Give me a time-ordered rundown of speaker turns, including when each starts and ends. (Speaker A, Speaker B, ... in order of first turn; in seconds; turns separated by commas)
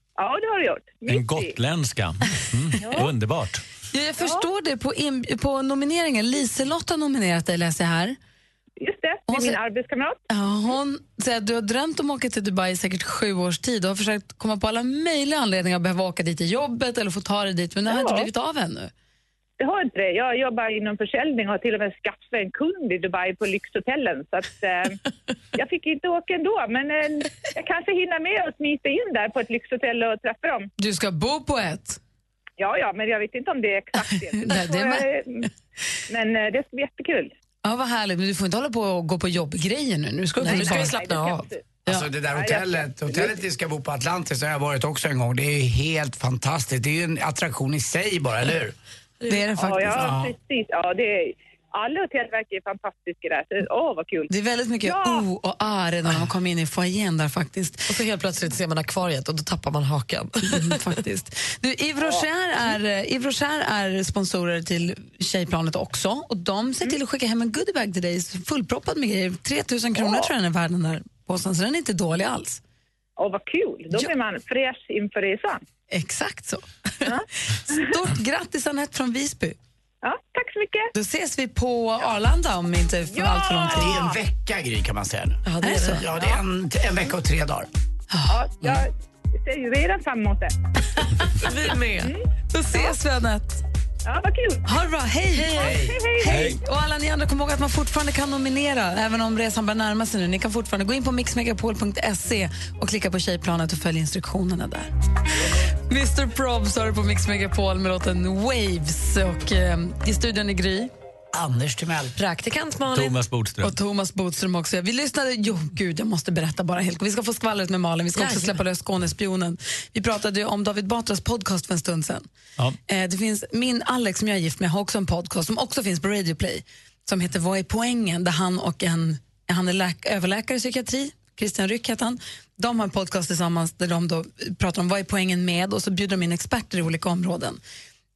Speaker A: 0.2-1.5, Speaker B: 1.1-3.6, Speaker A: 2.8-3.1, Speaker C: 3.9-8.2, Speaker A: 4.2-4.5, Speaker A: 8.8-10.2, Speaker C: 9.3-9.6, Speaker C: 10.3-18.9, Speaker A: 17.9-18.3, Speaker A: 19.6-25.0, Speaker A: 25.6-30.7, Speaker C: 30.8-32.0, Speaker A: 32.6-35.5, Speaker C: 34.1-35.1, Speaker A: 36.1-37.3, Speaker C: 37.6-42.1, Speaker D: 40.4-41.5, Speaker A: 40.7-41.6, Speaker E: 41.9-48.8, Speaker A: 42.3-43.3, Speaker D: 49.2-49.5, Speaker C: 49.3-50.1, Speaker A: 49.6-54.3, Speaker E: 49.9-50.3, Speaker C: 54.3-57.9, Speaker A: 54.8-55.3, Speaker D: 57.9-60.8, Speaker C: 60.5-72.6, Speaker A: 73.2-75.6, Speaker C: 75.9-79.6, Speaker A: 80.0-80.9, Speaker C: 80.9-84.1, Speaker A: 83.1-84.2, Speaker E: 83.7-87.7, Speaker D: 85.5-86.3, Speaker C: 85.6-86.0, Speaker C: 88.1-88.4, Speaker A: 88.3-90.5, Speaker D: 91.4-92.1, Speaker A: 92.0-92.9, Speaker C: 92.5-93.6, Speaker A: 94.1-94.7, Speaker C: 94.7-104.9, Speaker D: 95.3-95.7, Speaker E: 95.6-96.0, Speaker A: 95.7-96.4, Speaker B: 96.3-96.6, Speaker C: 105.9-110.9, Speaker E: 111.3-112.1, Speaker D: 112.2-113.2, Speaker B: 112.9-113.8, Speaker C: 113.6-122.3, Speaker D: 118.2-118.6, Speaker C: 122.9-137.6